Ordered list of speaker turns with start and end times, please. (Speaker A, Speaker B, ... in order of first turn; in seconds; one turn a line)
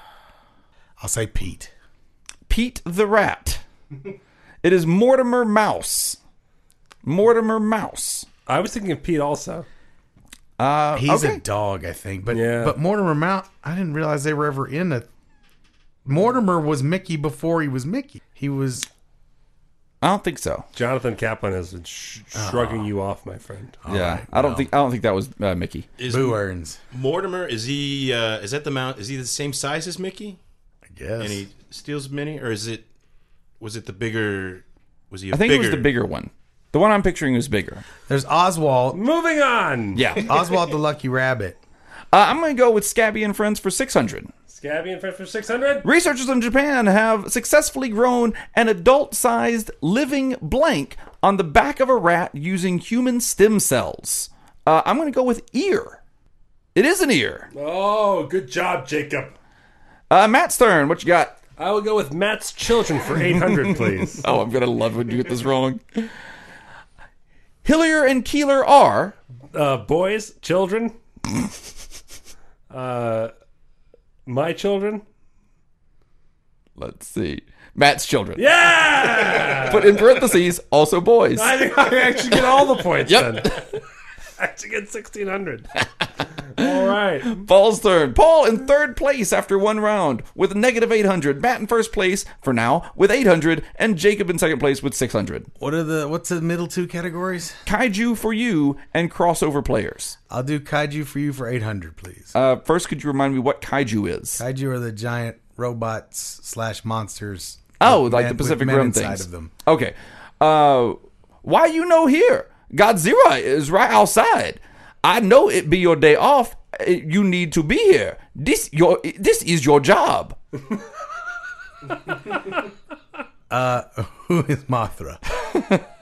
Speaker A: 1.0-1.7
Speaker B: 2.5-3.6
Speaker B: 4.6-6.2
Speaker B: 7.0-8.3
Speaker C: 8.5-9.7
Speaker B: 10.6-11.4
Speaker A: 10.9-15.1
Speaker C: 12.3-12.8
Speaker A: 16.0-18.9
Speaker B: 20.0-20.7
Speaker C: 20.7-23.8
Speaker A: 22.3-22.9
Speaker A: 23.8-24.7
Speaker B: 23.9-25.9
Speaker D: 26.0-26.4
Speaker A: 26.1-26.8
Speaker D: 26.9-30.4
Speaker A: 30.9-31.4
Speaker D: 31.2-32.9
Speaker D: 33.6-35.9
Speaker B: 35.3-37.8
Speaker A: 38.1-39.0
Speaker C: 38.9-40.1
Speaker B: 40.0-40.3
Speaker A: 40.2-41.6
Speaker B: 42.1-44.3
Speaker C: 44.5-45.9
Speaker B: 45.8-56.0
Speaker B: 56.7-57.5
Speaker C: 57.5-59.3
Speaker B: 60.1-61.4
Speaker C: 61.6-64.2
Speaker B: 64.1-66.1
Speaker B: 67.6-69.2
Speaker C: 69.5-71.0
Speaker C: 72.7-73.3
Speaker C: 74.2-75.0
Speaker B: 76.8-78.4
Speaker C: 78.3-80.2
Speaker B: 79.3-81.5
Speaker C: 81.3-83.8
Speaker B: 83.0-83.5
Speaker C: 84.4-85.7
Speaker C: 86.5-87.4
Speaker B: 87.3-95.5
Speaker A: 95.6-97.6
Speaker B: 97.7-100.2
Speaker A: 100.3-102.3
Speaker B: 102.3-104.4
Speaker A: 104.3-109.5
Speaker B: 107.8-120.4
Speaker A: 123.5-125.6